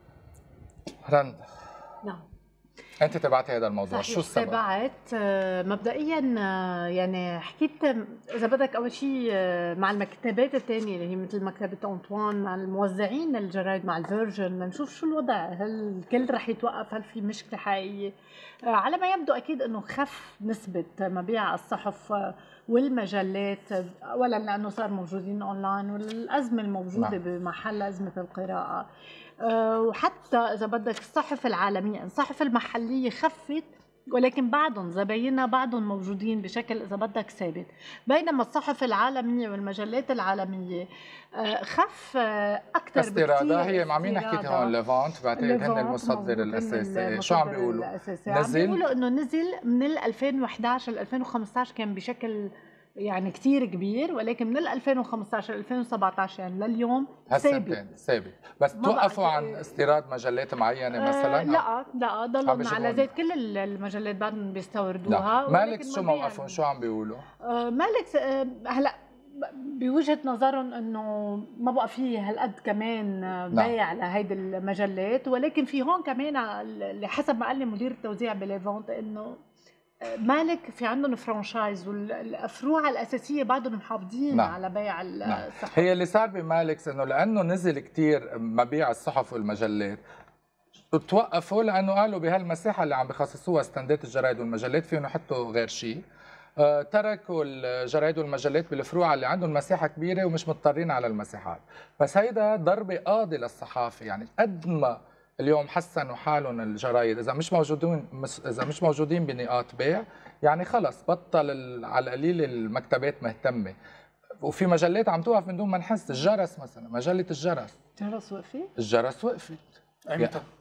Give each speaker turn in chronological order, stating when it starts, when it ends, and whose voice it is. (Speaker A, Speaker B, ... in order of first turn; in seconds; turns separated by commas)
Speaker A: 1.1-1.4, Speaker A: 3.0-4.6, Speaker B: 3.9-18.1, Speaker B: 18.7-28.9, Speaker B: 29.4-44.8, Speaker A: 43.0-48.8, Speaker B: 45.4-57.8, Speaker A: 57.3-61.6, Speaker B: 58.8-59.8, Speaker B: 60.9-66.6, Speaker A: 62.5-63.1, Speaker A: 65.1-67.2, Speaker B: 67.4-79.4, Speaker B: 80.0-85.9, Speaker A: 85.3-90.0, Speaker A: 90.9-96.0, Speaker A: 96.6-113.8, Speaker A: 114.4-117.7, Speaker B: 118.0-118.7, Speaker A: 118.8-120.4